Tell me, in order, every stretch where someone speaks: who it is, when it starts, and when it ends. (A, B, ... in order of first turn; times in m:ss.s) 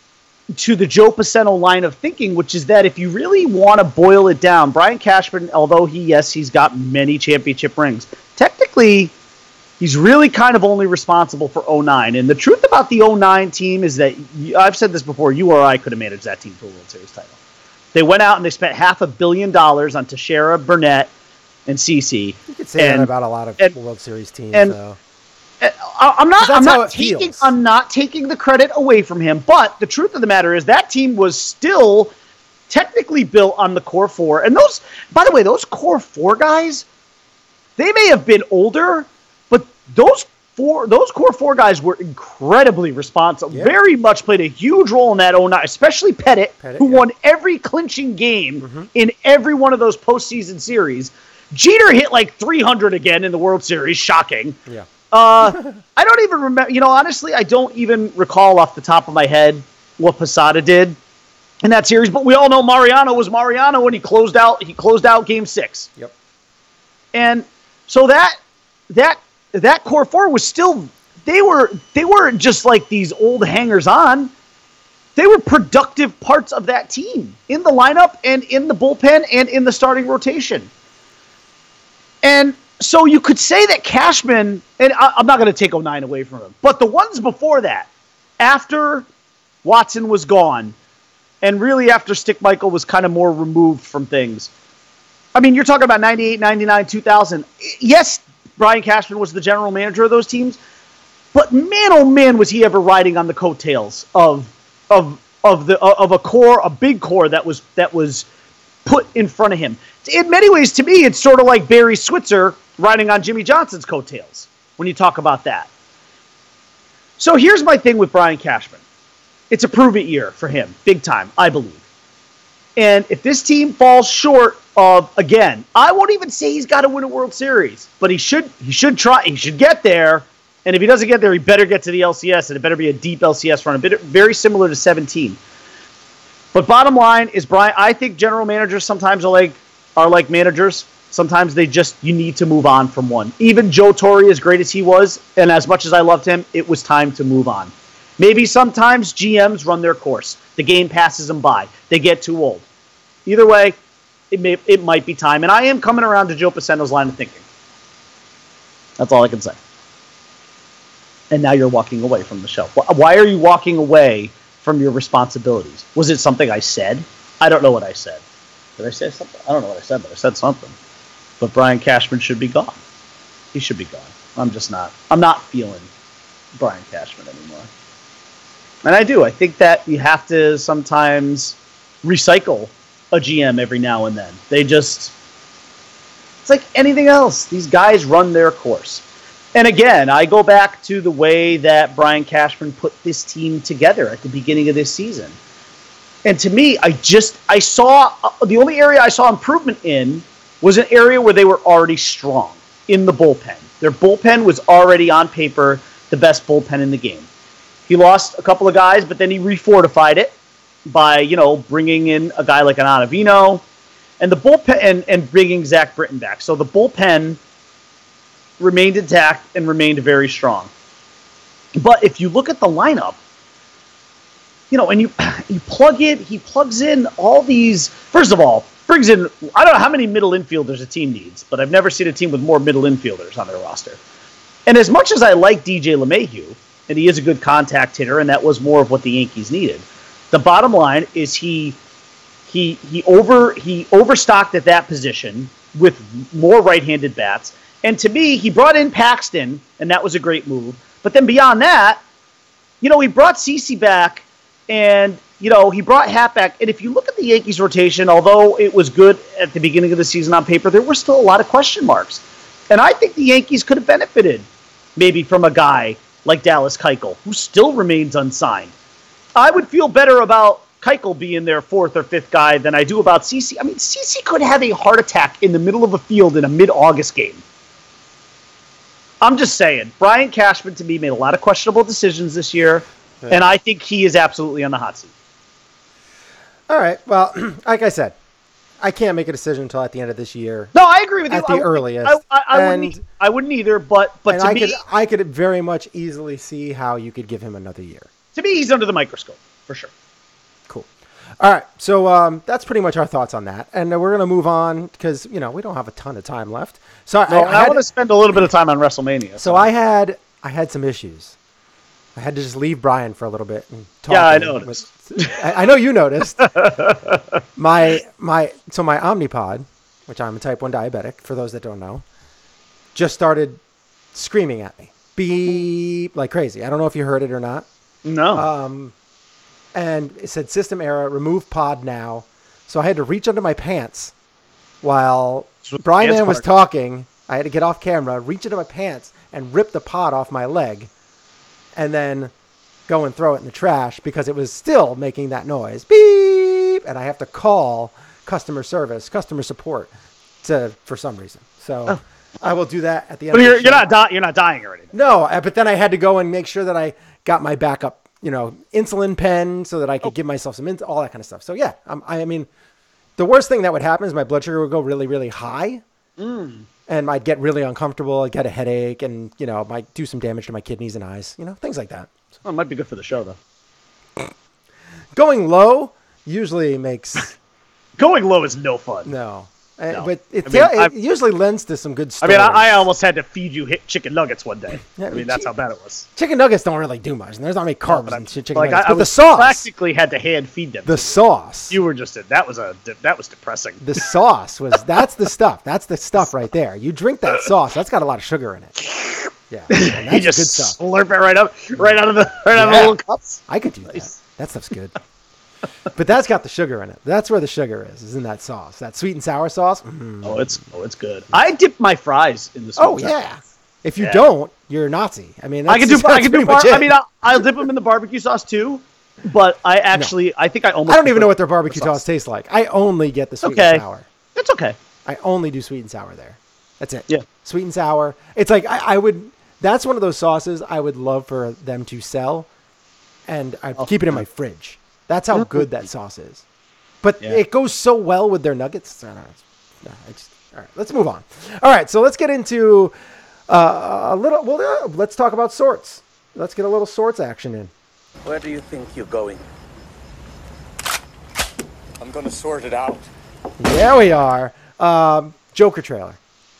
0:00.5-0:09.1 A
0:09.8-0:17.4 A
0:17.9-0:21.1 A
0:21.7-0:23.7 A
0:22.5-0:25.0 B
0:25.6-0:32.1 A
0:26.4-0:27.5 B
0:32.7-0:36.8 A
0:37.8-0:54.6 A
0:46.6-0:47.0 B
0:48.6-0:48.9 B
0:55.1-1:01.0 A
0:55.4-0:55.8 B
1:01.6-1:05.9 A
1:07.1-1:08.4 A
1:08.9-1:14.3 A
1:15.2-1:20.7 A
1:22.2-1:27.9 A
1:28.4-1:29.0 A
1:29.6-1:30.7 A
1:31.4-1:34.5 A
1:35.3-1:40.6 A
1:41.3-1:48.3 A
1:48.8-1:55.7 A
1:57.2-1:58.8 A
1:59.5-2:01.8 A
2:02.8-2:15.4 A
2:16.5-2:32.6 A
2:33.2-2:33.8 A
2:34.3-2:37.4 A
2:39.0-2:39.6 A
2:41.3-2:48.2 A
2:48.8-2:50.7 A
2:51.4-2:52.8 A
2:53.5-2:55.9 A
2:56.6-2:57.7 A
2:58.8-3:05.1 A
3:06.4-3:09.0 A
3:09.5-3:15.4 A
3:16.2-3:27.3 A
3:27.9-3:30.3 A
3:30.8-3:33.6 A
3:34.2-3:37.4 A
3:38.6-3:40.7 A
3:41.8-3:43.2 A
3:44.7-3:54.0 A
3:54.7-4:01.8 A
4:02.5-4:12.0 A
4:12.8-4:24.4 A
4:25.0-4:28.7 A
4:29.4-4:37.4 A
4:39.2-4:45.1 A
4:46.7-4:48.2 B
4:48.8-4:50.7 B
4:50.7-4:54.8 A
4:51.3-4:53.0 B
4:54.3-4:58.1 B
4:58.3-4:59.9 A
5:01.4-5:07.8 B
5:07.3-5:09.7 A
5:09.4-5:11.4 B
5:12.1-5:16.7 B
5:14.1-5:15.4 A
5:16.4-5:17.2 A
5:17.6-5:22.0 B
5:22.9-5:23.6 B
5:24.1-5:27.7 B
5:28.0-5:28.4 A
5:28.3-5:28.9 B
5:29.7-5:34.1 B
5:34.8-5:40.9 B
5:35.6-5:36.4 A
5:41.8-5:42.3 B
5:42.9-5:49.9 B
5:50.4-5:53.8 B
5:53.3-5:54.9 A
5:54.9-6:02.5 B
6:03.2-6:05.8 B
6:06.2-6:06.6 A
6:06.9-6:12.1 B
6:12.4-6:13.4 A
6:15.1-6:17.4 B
6:18.0-6:19.1 A
6:19.0-6:22.9 B
6:19.9-6:20.9 A
6:22.2-6:26.1 A
6:25.0-6:25.5 B
6:26.2-6:29.7 B
6:27.9-6:31.2 A
6:30.8-6:31.8 B
6:31.7-6:34.0 A
6:33.8-6:38.8 B
6:38.8-6:44.1 A
6:39.5-6:40.8 B
6:42.5-6:43.0 B
6:43.5-6:45.0 B
6:45.9-6:50.6 B
6:50.2-6:53.2 A
6:52.8-6:57.4 B
6:55.7-7:02.0 A
7:00.9-7:04.0 B
7:03.4-7:03.8 A
7:04.3-7:04.7 A
7:05.0-7:12.5 B
7:13.3-7:16.4 B
7:15.3-7:15.6 A
7:17.0-7:22.9 B
7:23.5-7:27.7 B
7:28.2-7:29.4 C
7:32.0-7:33.1 C
7:33.6-7:36.2 B